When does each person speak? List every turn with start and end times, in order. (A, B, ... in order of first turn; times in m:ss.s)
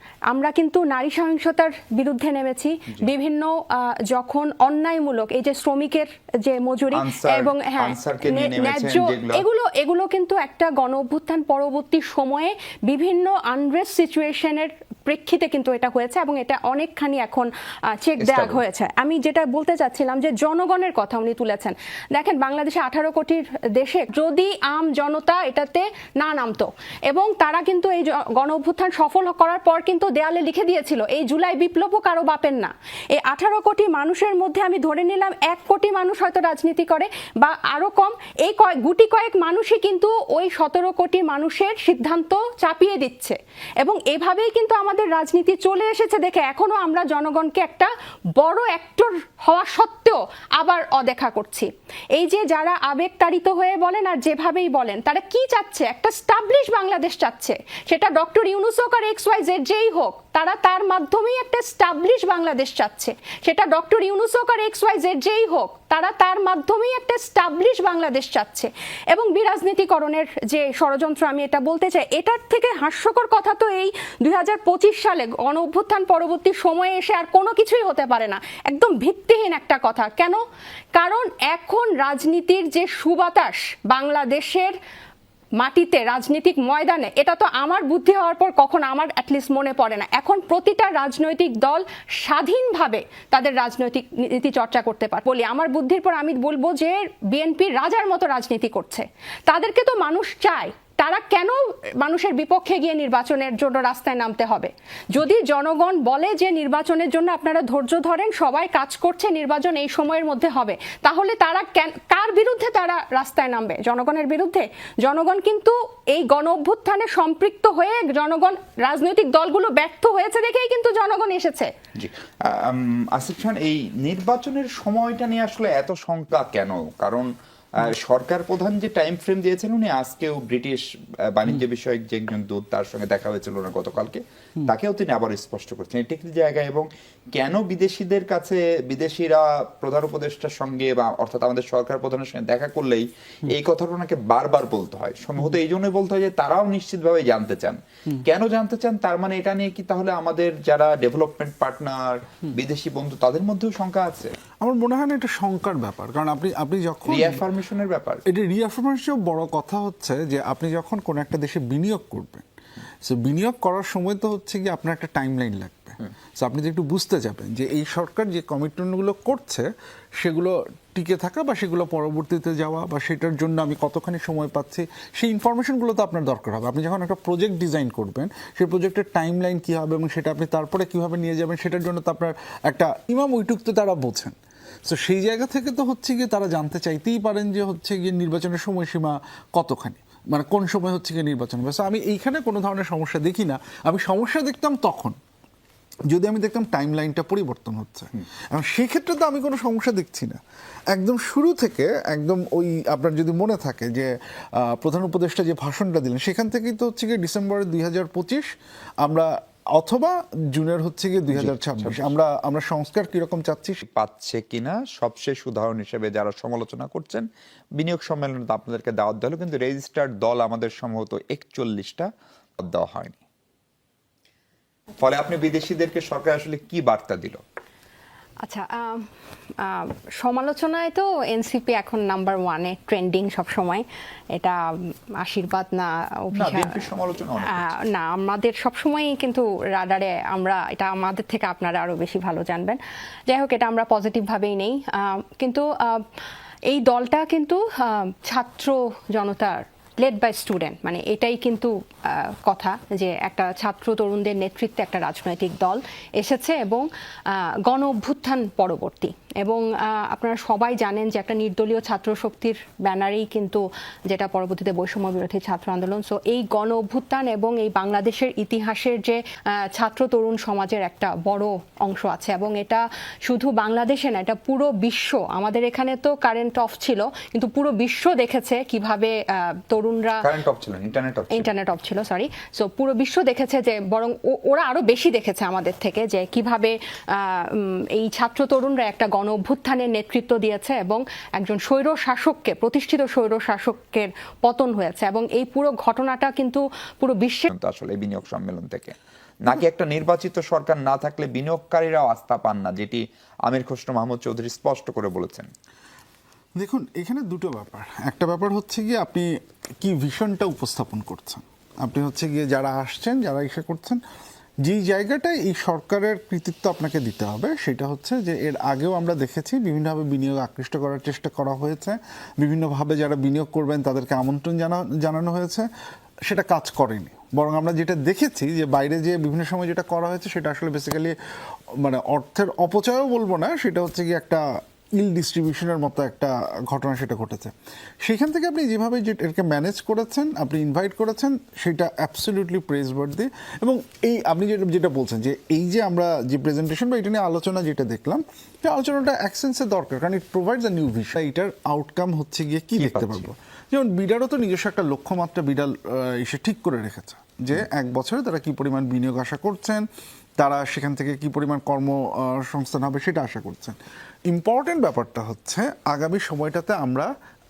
0:00.3-1:20.4 A
0:06.9-0:09.4 B
0:18.2-0:18.6 B
1:21.0-1:24.8 A
1:25.6-2:01.7 A
2:02.0-2:34.3 B
2:34.6-2:37.4 C
2:37.1-2:38.2 B
2:38.3-2:42.5 C
2:43.0-3:04.4 C
3:04.9-3:15.2 C
3:16.1-3:28.5 C
3:29.0-3:33.8 C
3:31.3-3:32.1 B
3:33.8-3:37.3 B
3:37.8-3:43.2 B
3:45.0-3:47.4 B
3:48.4-3:56.8 A
3:56.4-3:57.7 B
3:57.4-4:06.1 A
4:06.7-4:40.3 A
4:40.2-4:41.5 B
4:41.3-4:57.5 A
4:57.5-5:05.5 B
5:06.6-5:14.0 C
5:14.6-5:25.7 C
5:26.3-5:31.2 C
5:31.8-5:34.4 C
5:35.0-5:59.8 C
5:52.8-5:53.3 B
6:00.4-6:03.8 C
6:04.3-6:07.1 C